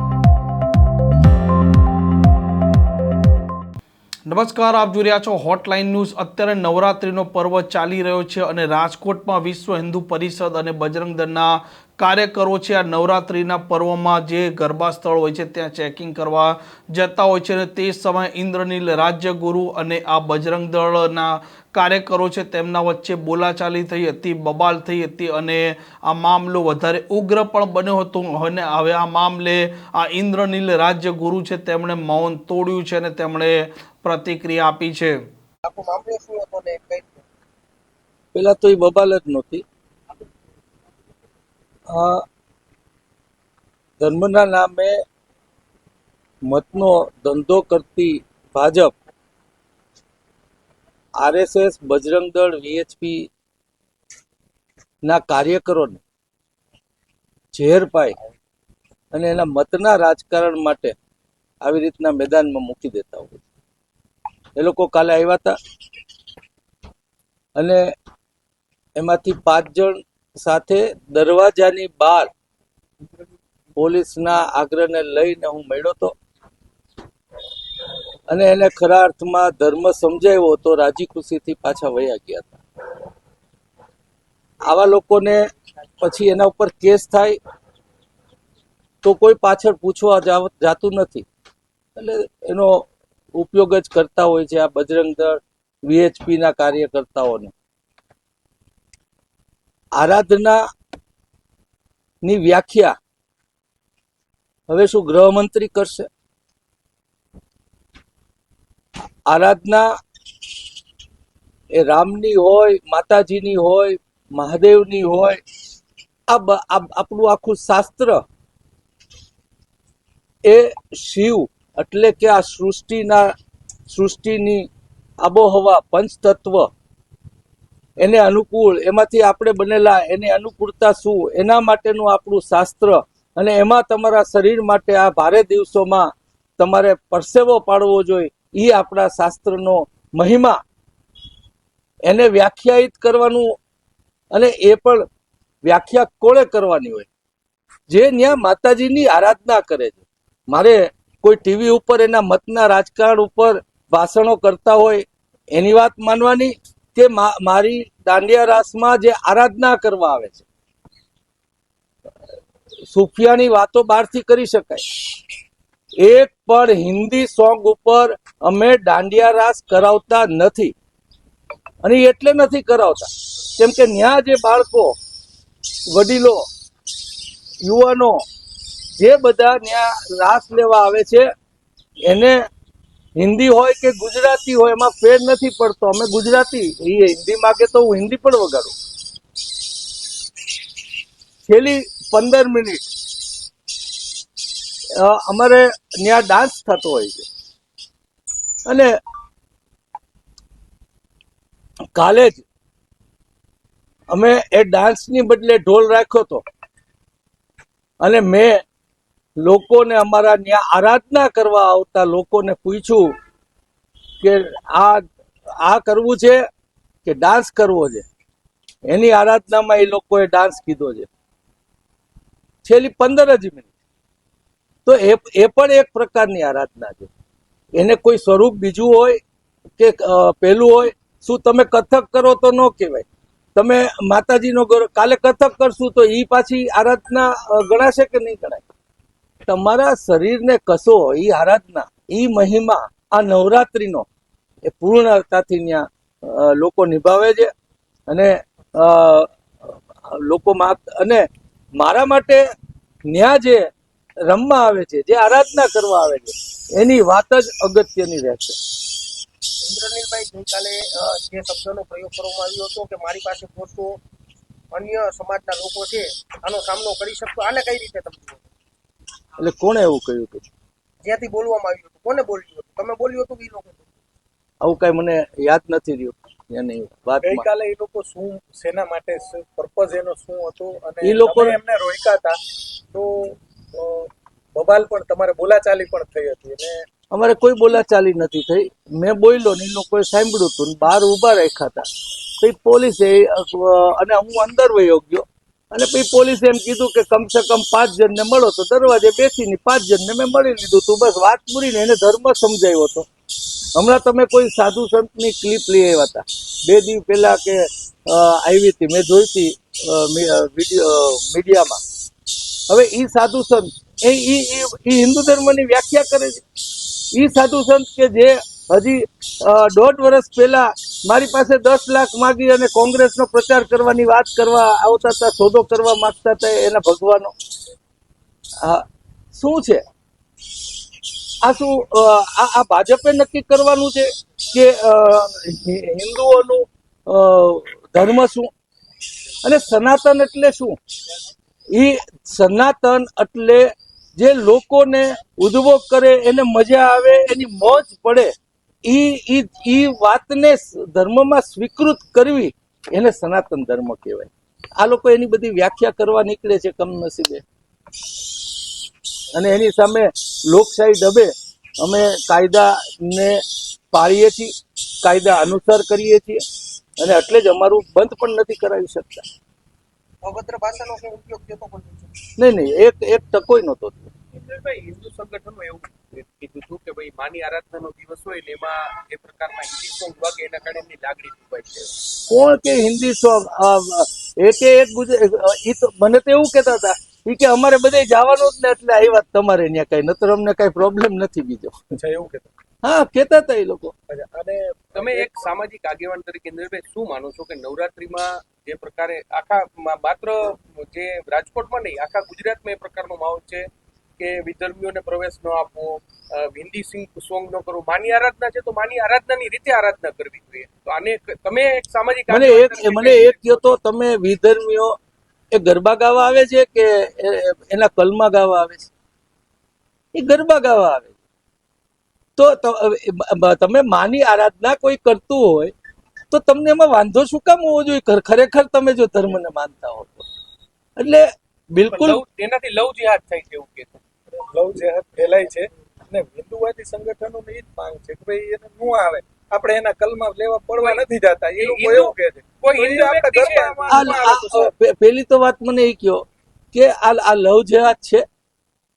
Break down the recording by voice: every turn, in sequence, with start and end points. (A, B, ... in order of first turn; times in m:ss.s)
0:04.3-0:35.2 A
0:35.6-0:37.2 B
0:38.3-0:39.6 C
0:41.9-0:42.2 C
0:44.0-0:45.0 C
0:46.5-0:48.9 C
0:51.2-0:53.3 C
0:55.0-0:56.0 C
0:57.5-0:58.2 C
0:59.1-1:01.0 C
1:01.6-1:03.4 C
1:04.6-1:05.6 C
1:07.6-1:07.9 C
1:09.0-1:12.3 C
1:13.8-1:16.2 C
1:18.3-1:22.6 C
1:24.7-1:25.4 C
1:26.0-1:27.4 C
1:29.0-1:31.3 C
1:32.0-1:37.5 C
1:40.0-1:40.6 C
1:42.2-1:43.0 C
1:44.7-1:46.1 C
1:49.3-1:49.9 C
1:51.7-1:55.4 C
1:56.3-1:58.2 C
2:00.4-2:03.3 C
2:03.9-2:04.7 C
2:05.2-2:06.7 C
2:08.0-2:20.6 C
2:22.0-2:23.5 C
2:24.3-2:25.1 C
2:25.6-2:27.1 C
2:27.9-2:40.4 C
2:42.9-2:44.8 C
2:46.0-2:50.7 C
2:51.8-2:55.0 C
2:55.9-2:56.5 C
2:57.6-2:58.2 C
2:59.0-3:01.3 C
3:02.0-3:02.4 C
3:03.2-3:08.7 C
3:11.5-3:12.8 C
3:15.0-3:17.3 C
3:18.7-3:18.9 C
3:21.9-3:22.5 C
3:24.1-3:26.4 C
3:28.0-3:28.6 C
3:29.4-3:33.1 C
3:34.2-3:35.0 C
3:35.6-3:36.4 C
3:37.0-3:38.0 C
3:38.9-3:41.1 C
3:42.6-3:43.7 C
3:44.9-3:47.1 C
3:47.8-3:49.2 C
3:49.8-3:58.6 C
3:59.4-4:04.1 C
4:04.7-4:07.5 C
4:08.1-4:11.3 C
4:11.8-4:12.4 C
4:13.1-4:13.7 C
4:14.3-4:18.6 C
4:19.6-4:24.0 B
4:24.7-4:28.4 B
4:29.4-4:30.4 C
4:31.0-4:33.8 B
4:34.6-4:37.5 C
4:37.2-4:42.4 D
4:41.0-4:41.6 C
4:42.9-4:46.8 D
4:47.1-4:51.9 C
4:52.4-5:03.1 C
5:03.8-5:11.8 C
5:12.7-5:16.4 C
5:17.0-5:27.3 C
5:28.6-5:29.8 C
5:31.4-5:38.5 C
5:39.4-5:40.8 C
5:41.7-5:48.3 C
5:48.8-5:57.4 C
5:59.3-6:03.4 C
6:03.9-6:06.4 C
6:07.0-6:09.2 C
6:10.2-6:12.1 B
6:12.4-6:14.1 C
6:14.3-6:22.0 E
6:22.3-6:31.8 C
6:31.9-6:32.5 D
6:32.8-6:33.9 C
6:34.1-6:35.5 D
6:35.0-6:43.7 E
6:44.2-6:53.8 E
6:52.3-6:55.0 C
6:55.5-6:58.9 C
7:00.1-7:01.2 C
7:02.4-7:05.7 C
7:06.3-7:10.3 C
7:11.0-7:12.2 C
7:11.9-7:14.0 E
7:14.4-7:24.6 D
7:20.8-7:21.0 E
7:21.6-7:24.7 E
7:23.9-7:28.2 C